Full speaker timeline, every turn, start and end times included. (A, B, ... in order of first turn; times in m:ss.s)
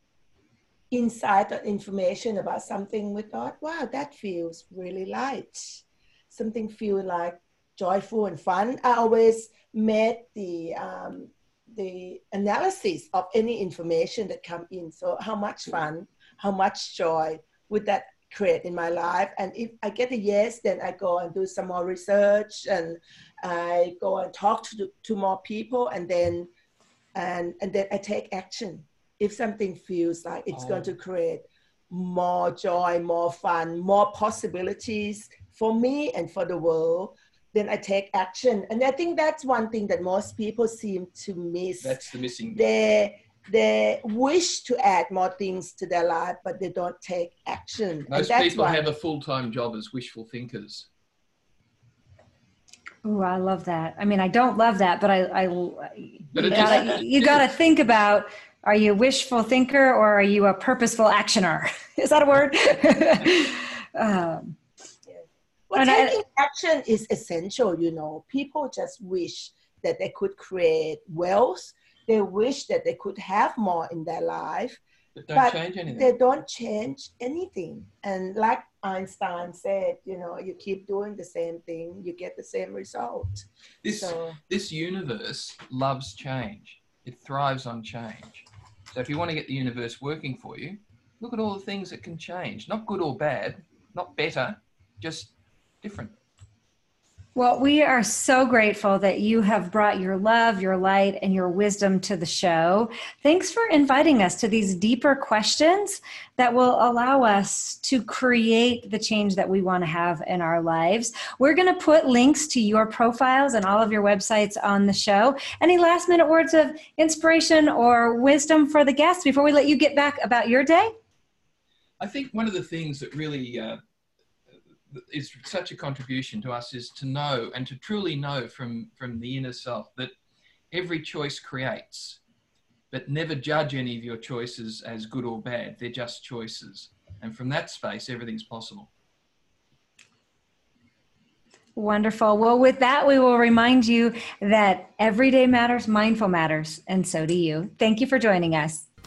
0:00.9-0:26.5 A
0:27.1-0:42.0 A
0:30.5-0:30.9 B
0:41.8-0:42.7 B
0:42.5-0:48.8 A
0:48.1-0:50.9 B
0:53.0-1:04.6 C
0:56.3-0:57.4 B
1:05.1-1:14.8 A
1:05.8-1:06.2 C
1:15.2-1:16.1 B
1:15.3-1:24.4 A
1:23.8-1:36.1 B
1:37.3-2:00.9 C
2:02.0-2:03.8 B
2:04.9-2:10.1 B
2:10.7-2:12.2 B
2:12.9-2:18.9 B
2:21.8-2:28.8 C